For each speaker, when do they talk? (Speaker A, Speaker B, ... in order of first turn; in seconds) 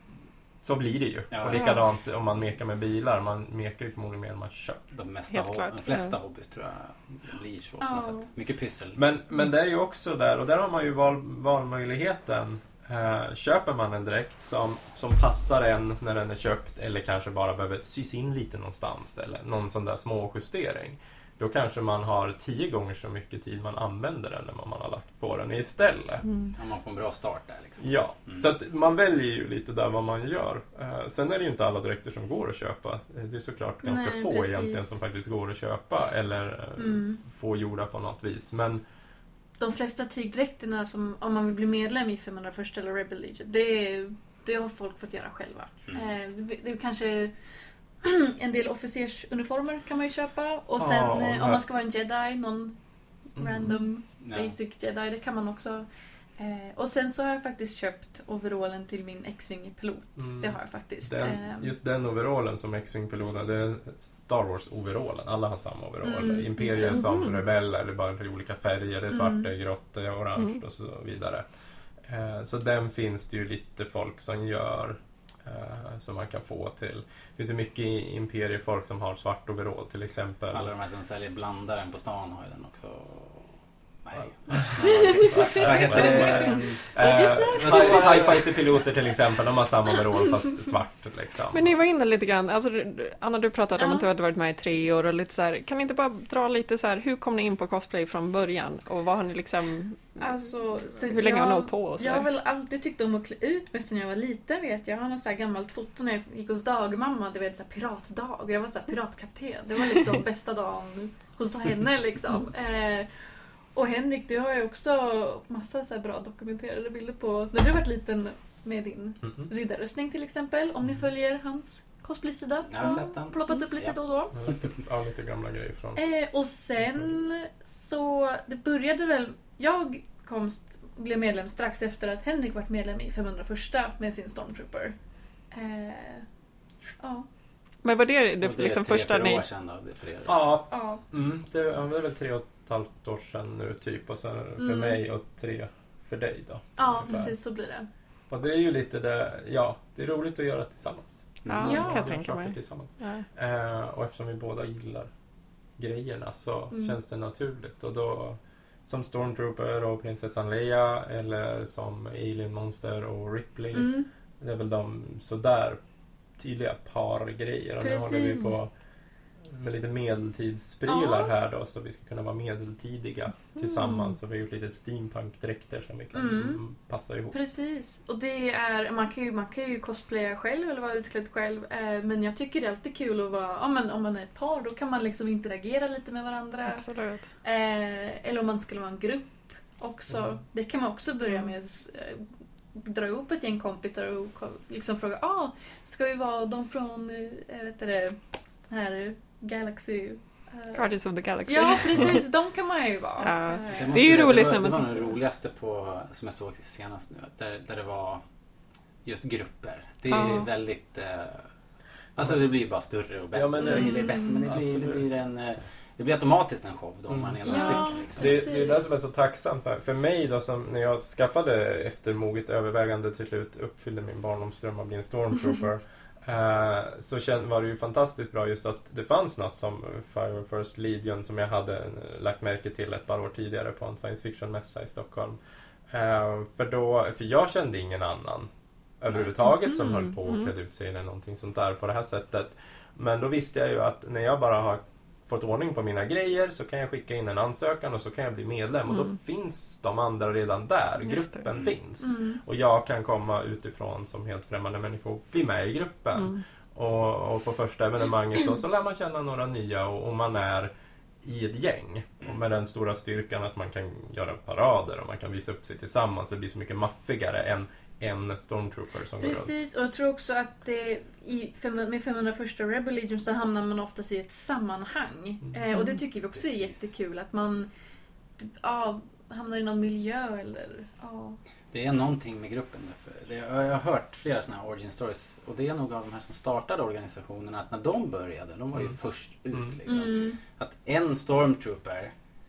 Speaker A: 0.6-4.8, 8.9-26.2, 27.8-38.8, 50.8-51.6, 53.4-53.8, 60.2-71.4, 72.0-80.7, 84.5-91.7, 119.2-119.5, 124.3-126.0, 140.2-147.3, 148.3-155.1, 155.8-165.8, 166.4-168.7, 169.4-177.3, 190.1-190.4, 213.3-215.0, 217.1-235.4, 235.9-238.5, 239.0-260.7, 261.2-269.6, 289.5-289.8
Speaker B: 1.3-1.8, 4.9-9.0, 26.5-28.5, 54.2-54.5, 80.5-86.9, 87.5-88.5, 122.7-124.0, 138.4-140.4, 151.4-151.8, 203.7-208.2, 209.0-211.4, 212.2-218.4, 276.3-276.9, 281.7-292.1
Speaker C: 1.5-1.8, 5.3-6.1, 26.2-26.5, 66.8-67.4, 91.5-100.5, 101.0-102.3, 137.8-139.4, 151.5-153.3, 186.7-187.2, 200.7-202.2, 203.2-205.1, 210.1-210.5, 239.7-240.5, 248.9-249.1, 251.1-251.4, 256.1-256.4, 275.7-276.0
Speaker D: 7.8-8.3, 33.8-34.9, 36.8-37.2, 39.6-47.3, 48.0-52.7, 53.3-55.9, 56.4-61.7, 66.0-67.0, 69.1-69.5, 84.8-88.4, 93.8-94.1, 100.2-113.1, 113.7-124.3, 126.0-134.9, 135.5-136.3, 137.0-137.3, 140.7-141.0, 144.6-145.0, 146.8-147.9, 151.6-152.1, 156.7-157.0, 163.7-164.1, 167.8-168.6, 170.9-171.3, 173.6-174.1, 176.1-176.6, 177.3-186.8, 187.4-198.2, 198.7-200.9, 201.5-204.0, 213.6-214.3, 217.4-218.9, 252.0-252.4, 269.2-277.7, 278.4-281.4, 289.9-290.4